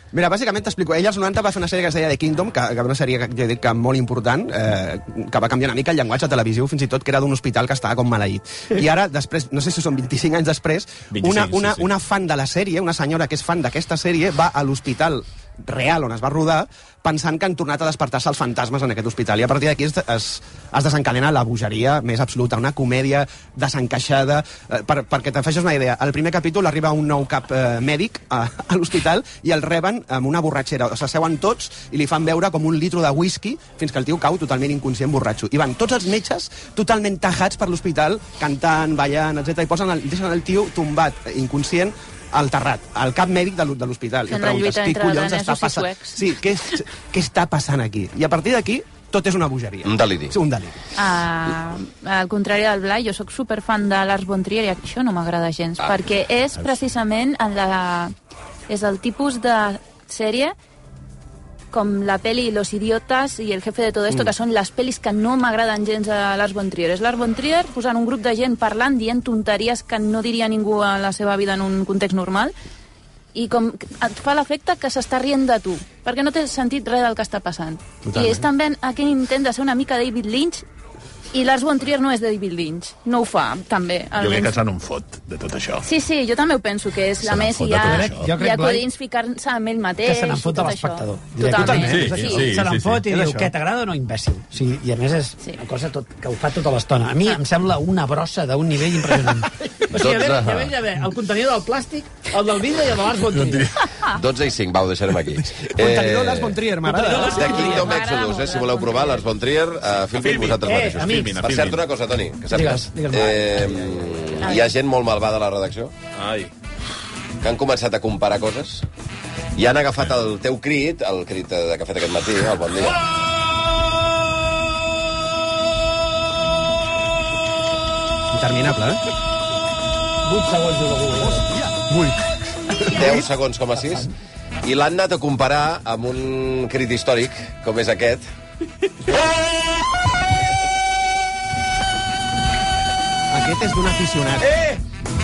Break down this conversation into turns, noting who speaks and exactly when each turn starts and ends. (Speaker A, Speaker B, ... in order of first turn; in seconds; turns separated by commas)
Speaker A: 0.1-50.8, Speaker B: 11.1-11.8, Speaker C: 44.3-46.3, Speaker D: 49.8-50.4, Speaker C: 51.0-58.1, Speaker C: 58.7-60.5, Speaker C: 61.7-72.5, Speaker C: 73.3-80.6, Speaker A: 78.0-78.4, Speaker C: 81.3-84.5, Speaker B: 84.2-85.9, Speaker C: 85.8-92.5, Speaker B: 87.2-88.3, Speaker E: 87.8-88.8, Speaker E: 90.0-103.8, Speaker A: 91.6-92.2, Speaker B: 91.7-93.1, Speaker A: 93.1-93.5, Speaker D: 99.9-100.7, Speaker B: 103.4-103.9, Speaker D: 104.0-106.6, Speaker A: 105.6-107.7, Speaker E: 106.8-107.9, Speaker D: 107.1-115.9, Speaker C: 107.3-109.3, Speaker B: 110.2-111.8, Speaker E: 110.6-111.4, Speaker E: 112.5-113.8, Speaker C: 114.4-114.7, Speaker B: 116.2-116.5, Speaker D: 117.4-118.8, Speaker D: 119.5-123.0, Speaker A: 128.3-129.0, Speaker E: 130.2-131.5, Speaker A: 131.2-133.3, Speaker D: 132.8-134.1, Speaker E: 133.7-134.1, Speaker D: 134.6-138.2, Speaker A: 143.3-144.5, Speaker D: 144.4-144.8